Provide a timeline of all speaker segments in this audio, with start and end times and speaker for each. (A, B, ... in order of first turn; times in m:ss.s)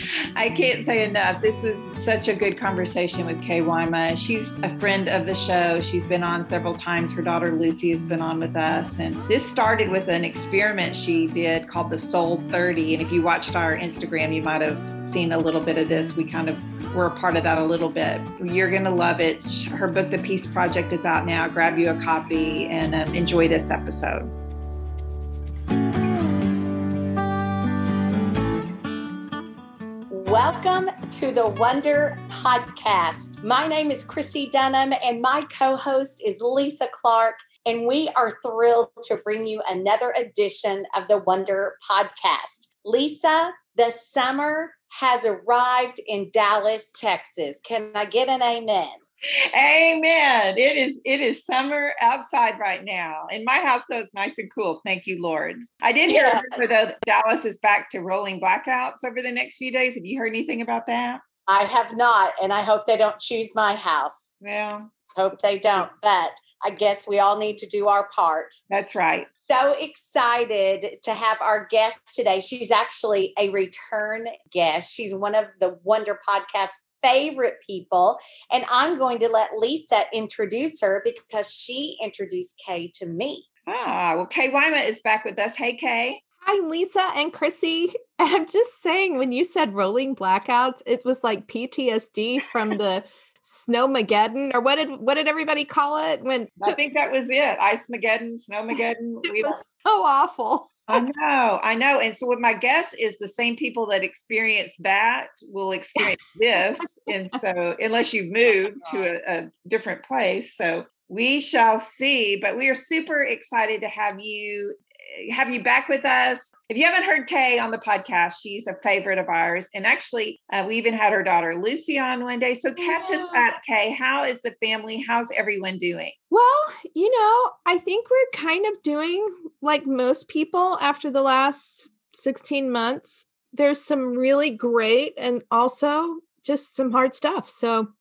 0:00.4-0:24.3 A
0:30.1-0:49.0 B
0:49.5-1:01.2 A
0:56.0-0:56.6 B
1:01.5-1:04.2 B
1:04.4-1:04.9 A
1:05.1-1:08.6 B
1:08.7-1:09.3 A
1:09.5-1:23.4 B
1:23.7-1:26.2 A
1:26.4-1:36.8 C
1:36.6-1:39.6 A
1:38.7-1:41.1 C
1:40.9-2:06.1 A
1:46.8-1:47.4 C
2:02.8-2:03.4 C
2:06.3-2:17.9 C